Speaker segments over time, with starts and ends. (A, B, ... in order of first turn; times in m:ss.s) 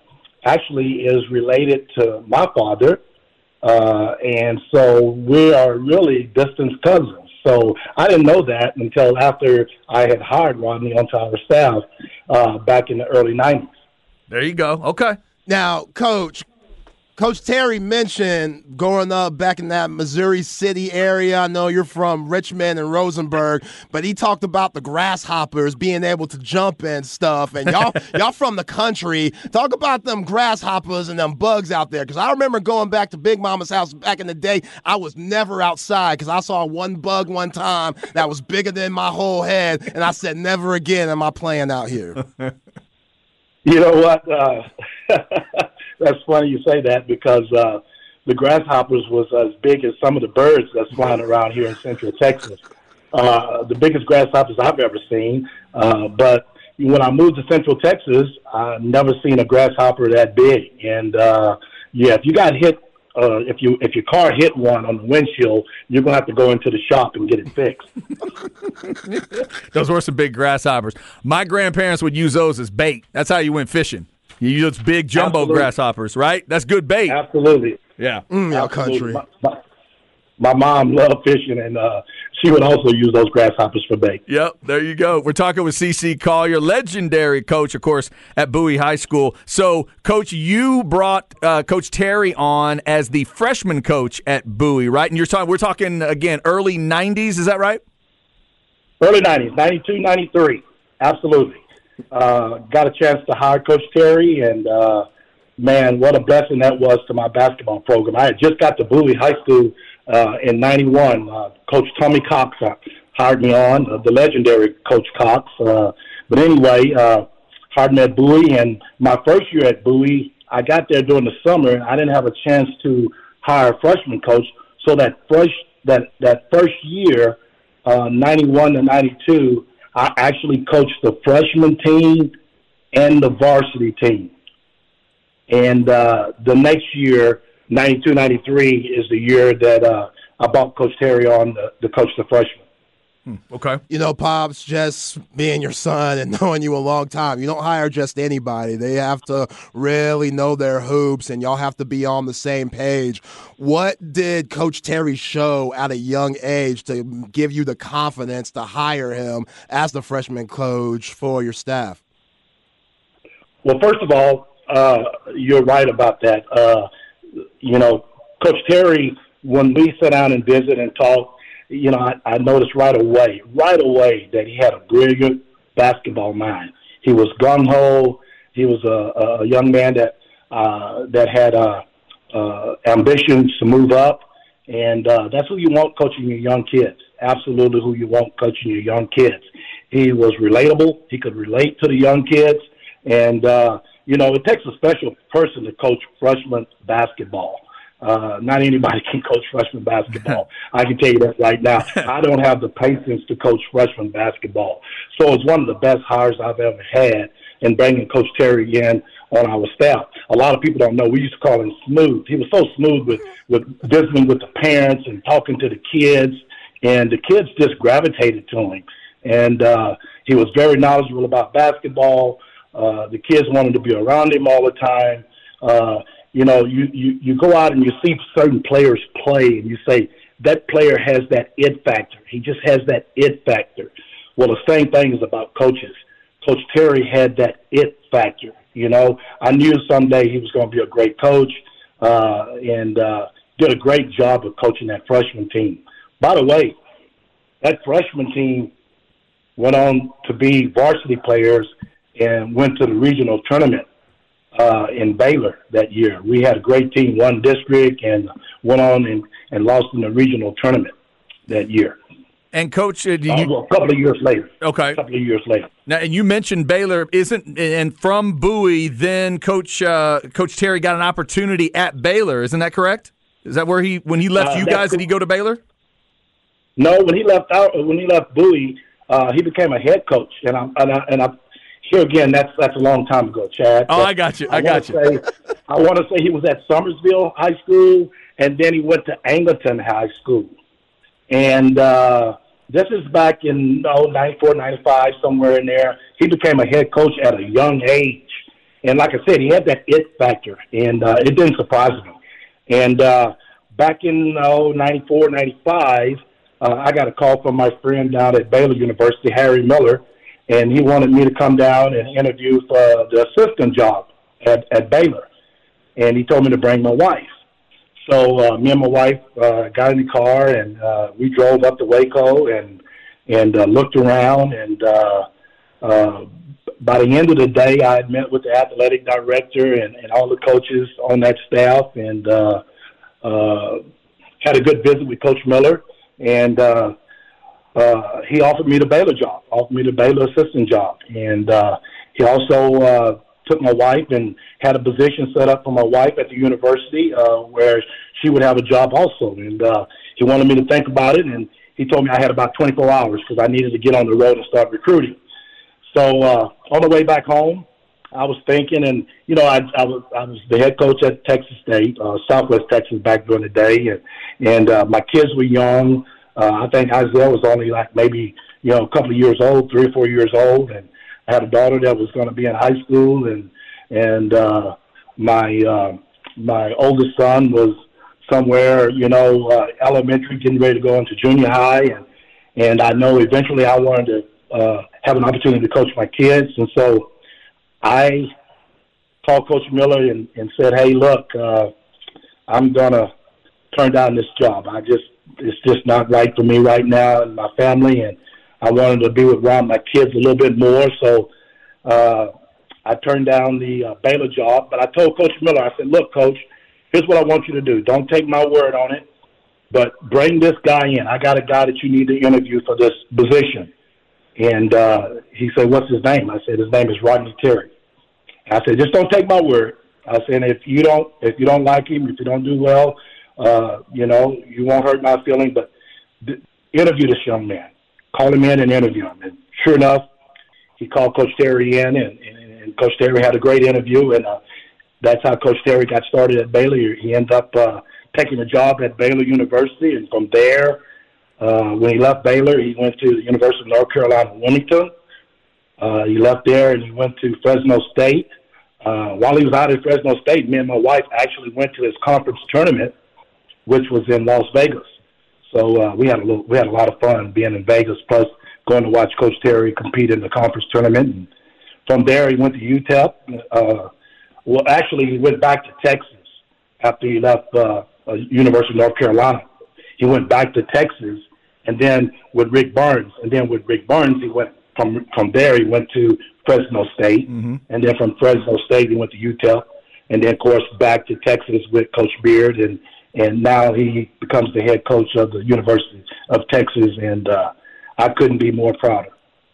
0:00.4-0:03.0 A
0:03.6-0:13.7 A
0:14.3-0:15.2 B
0:15.5-0:16.4 C
0:17.2-0:42.2 C
0:43.6-0:52.6 A
0:53.1-1:07.8 A
1:09.6-1:17.2 B
1:15.2-1:15.7 A
1:17.1-1:17.8 A
1:18.0-1:18.2 B
1:18.3-1:19.2 C
1:18.5-1:19.6 A
1:20.4-1:24.2 A
1:24.3-1:37.8 B
1:39.0-1:41.6 A
1:42.1-1:45.1 A
1:45.6-2:12.3 A
2:12.9-2:14.3 A
2:15.5-2:22.6 A
2:23.3-2:23.8 B
2:23.9-2:42.0 C
2:43.6-2:46.9 A
2:47.6-4:06.8 A
4:07.6-4:08.7 A
4:09.6-4:13.8 A
4:14.6-4:20.9 A
4:21.5-4:22.0 A
4:22.5-4:23.5 B
4:23.3-4:25.7 A
4:24.6-4:25.0 B
4:25.9-4:35.6 B
4:34.4-4:35.0 A
4:36.8-4:50.5 A
4:43.9-4:45.0 B
4:51.3-4:58.3 A
4:58.8-5:02.2 A
5:02.7-5:15.3 A
5:16.0-5:17.3 A
5:18.1-5:25.3 A
5:25.8-5:26.3 A
5:26.8-5:32.6 A
5:33.2-5:33.8 A
5:34.4-5:37.0 A
5:37.8-5:55.2 A
5:55.9-6:17.8 A
6:18.3-6:22.0 A
6:22.6-6:27.1 A
6:27.8-6:28.3 A
6:29.2-6:31.7 A
6:32.5-6:33.1 A
6:33.7-6:41.3 A
6:41.8-6:42.3 A
6:42.8-6:49.0 A
6:49.7-6:53.7 A
6:54.4-6:57.7 A
6:58.5-7:05.7 A
7:06.2-7:10.0 A
7:10.8-7:14.4 A
7:15.0-7:20.8 A
7:21.4-7:24.9 A
7:25.8-7:28.3 A
7:28.8-7:32.9 A
7:33.7-7:34.9 A
7:35.5-7:41.3 A
7:41.9-7:43.9 A
7:44.5-7:46.2 A
7:46.8-7:49.5 A
7:50.0-8:09.1 A